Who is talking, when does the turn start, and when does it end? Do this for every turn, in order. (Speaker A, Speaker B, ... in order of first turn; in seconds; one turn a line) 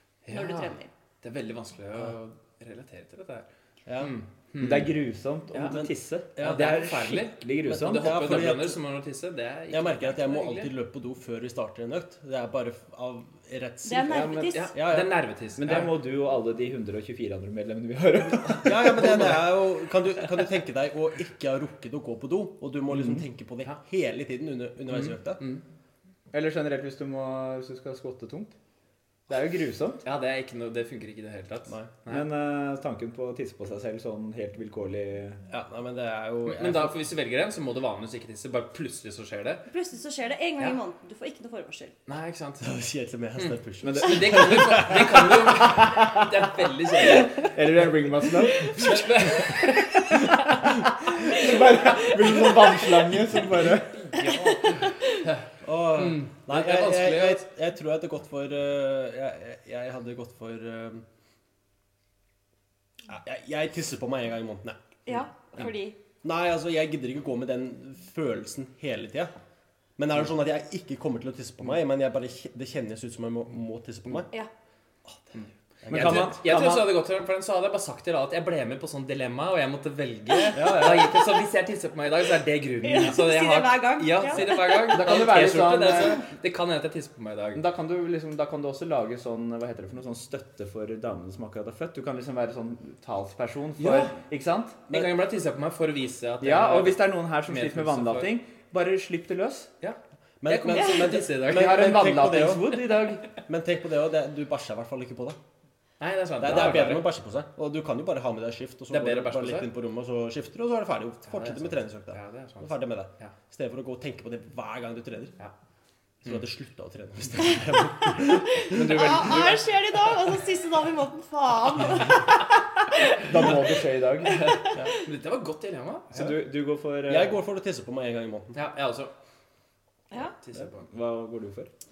Speaker A: 0.2-3.5
Speaker B: 0.3-0.9
Speaker C: 3.9-4.1
Speaker A: 4.0-5.0
Speaker D: 4.6-8.1
Speaker A: 5.5-5.8
Speaker C: 5.6-7.1
Speaker A: 6.4-10.7
Speaker C: 7.8-8.8
Speaker C: 9.7-15.2
Speaker B: 13.8-14.7
Speaker D: 14.1-14.6
Speaker A: 14.4-16.0
Speaker D: 15.6-19.4
Speaker C: 18.6-25.4
Speaker D: 22.9-23.2
Speaker A: 24.9-25.6
Speaker D: 26.3-28.5
Speaker D: 29.3-30.0
Speaker A: 30.0-32.2
Speaker D: 32.1-35.4
Speaker C: 35.5-37.0
Speaker A: 36.4-39.6
Speaker B: 39.7-41.9
Speaker A: 42.0-42.6
Speaker C: 42.6-45.7
Speaker D: 43.8-46.3
Speaker A: 44.0-47.5
Speaker D: 47.1-49.4
Speaker A: 48.6-50.6
Speaker C: 48.8-49.3
Speaker D: 50.1-54.2
Speaker A: 54.1-57.4
Speaker C: 55.6-61.0
Speaker C: 63.1-69.3
Speaker B: 65.0-66.0
Speaker C: 70.0-74.3
Speaker A: 75.3-87.6
Speaker C: 75.8-76.4
Speaker D: 75.9-77.0
Speaker C: 80.5-81.1
Speaker D: 80.6-81.0
Speaker B: 82.8-85.0
Speaker D: 84.9-86.2
Speaker D: 87.5-94.8
Speaker A: 93.8-94.2
Speaker C: 94.9-95.2
Speaker A: 94.9-98.3
Speaker D: 96.4-99.7
Speaker A: 99.8-102.2
Speaker C: 100.4-102.6
Speaker D: 101.4-103.2
Speaker A: 102.9-103.2
Speaker C: 103.5-105.4
Speaker A: 106.0-107.1
Speaker C: 106.4-115.3
Speaker A: 108.9-109.7
Speaker A: 111.3-113.3
Speaker C: 116.2-119.0
Speaker B: 118.5-122.4
Speaker D: 118.7-119.6
Speaker B: 122.9-123.5
Speaker D: 123.2-124.5
Speaker B: 124.3-124.6
Speaker A: 124.3-126.4
Speaker D: 126.1-127.4
Speaker C: 127.1-128.6
Speaker A: 128.5-129.1
Speaker A: 130.2-130.9
Speaker D: 130.9-131.7